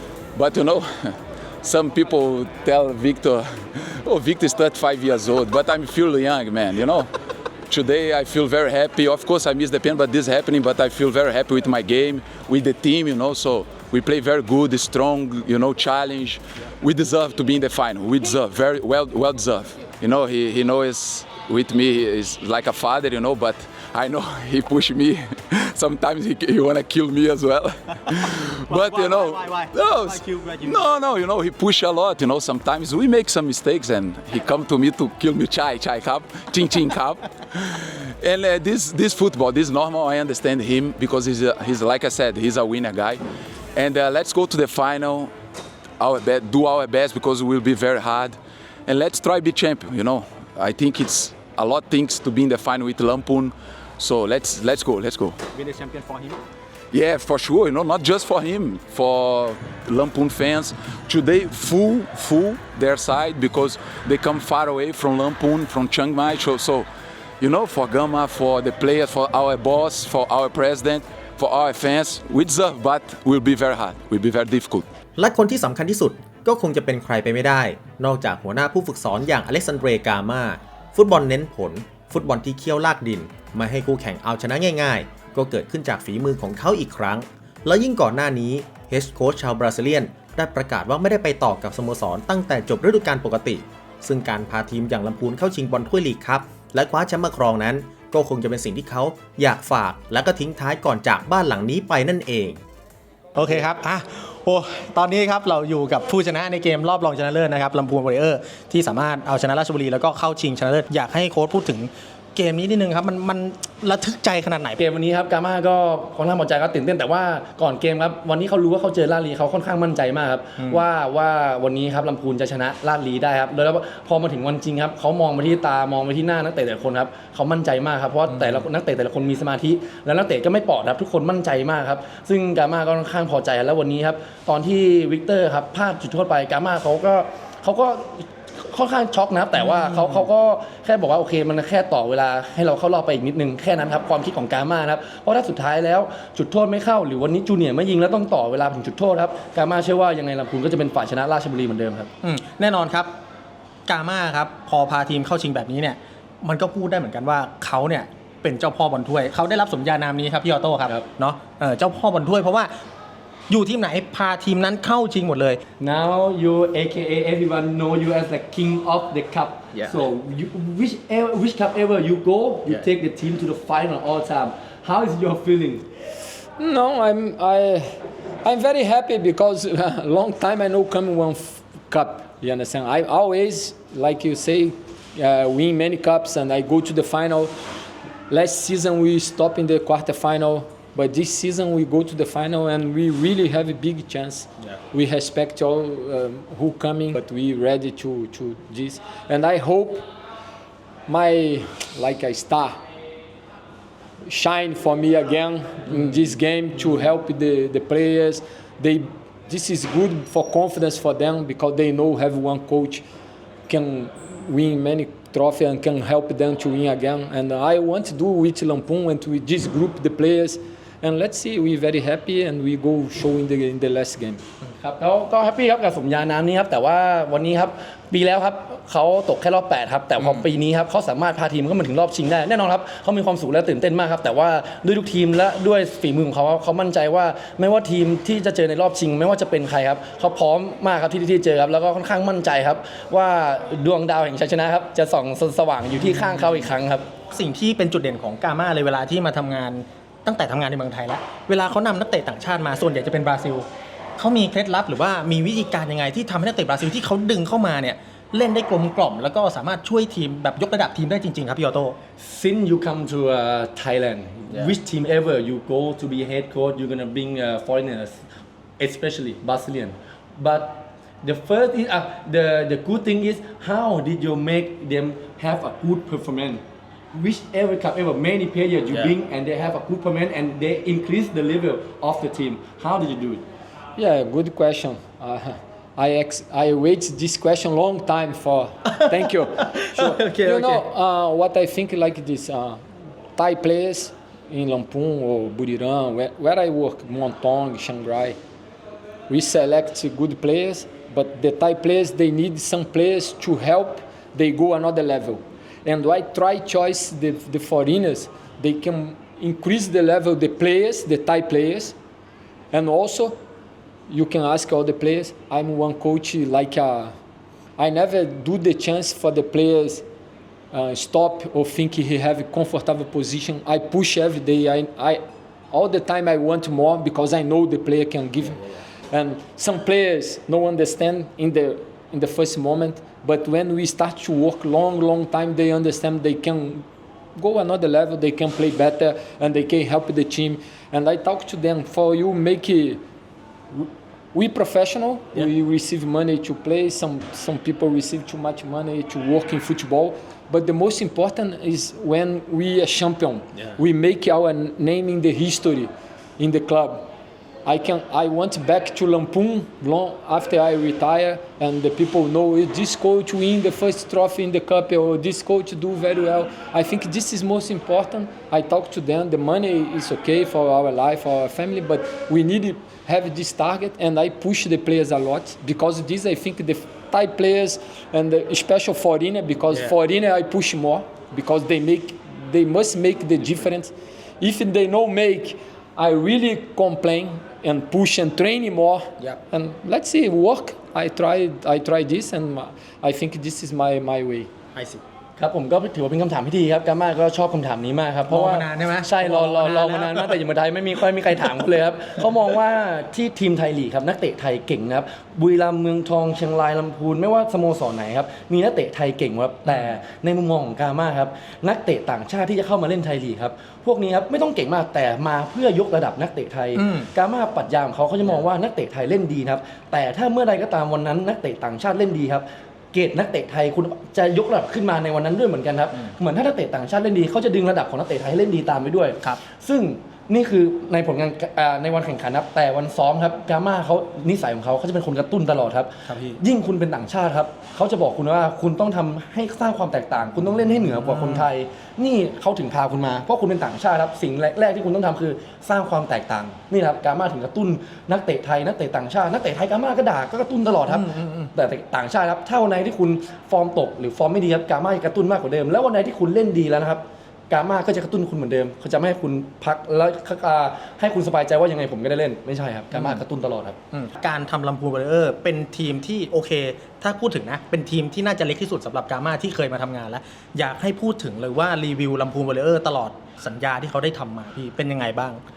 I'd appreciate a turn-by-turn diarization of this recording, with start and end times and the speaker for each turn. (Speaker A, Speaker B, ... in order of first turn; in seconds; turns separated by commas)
Speaker A: 0.3-7.1, Speaker A: 7.7-43.2, Speaker B: 28.7-30.9, Speaker A: 43.8-45.3, Speaker A: 46.0-55.4, Speaker B: 55.5-56.4, Speaker A: 56.9-66.9, Speaker A: 67.4-74.9, Speaker C: 75.2-102.6, Speaker B: 103.3-114.8, Speaker D: 114.8-152.1, Speaker B: 128.3-128.6, Speaker B: 152.2-153.1, Speaker B: 153.9-162.7, Speaker B: 163.5-165.6, Speaker D: 165.8-175.8, Speaker E: 176.6-187.6, Speaker E: 188.3-200.1, Speaker E: 201.1-202.8, Speaker E: 204.2-213.1, Speaker E: 213.7-224.4, Speaker D: 224.8-247.1, Speaker B: 247.3-262.0, Speaker D: 262.2-268.2, Speaker D: 268.8-283.4, Speaker E: 283.9-292.8, Speaker B: 289.7-290.8, Speaker E: 293.3-298.4, Speaker E: 299.3-311.9, Speaker E: 312.7-313.4, Speaker E: 314.1-317.1, Speaker E: 317.8-320.1, Speaker E: 320.7-343.0, Speaker E: 343.7-357.1, Speaker E: 357.7-394.5, Speaker B: 394.8-395.0, Speaker D: 395.4-463.8, Speaker B: 398.3-400.3, Speaker B: 409.7-409.9, Speaker B: 416.8-417.1, Speaker B: 436.1-436.4, Speaker B: 441.0-441.4, Speaker B: 450.9-451.5, Speaker B: 462.9-463.2, Speaker B: 463.9-475.4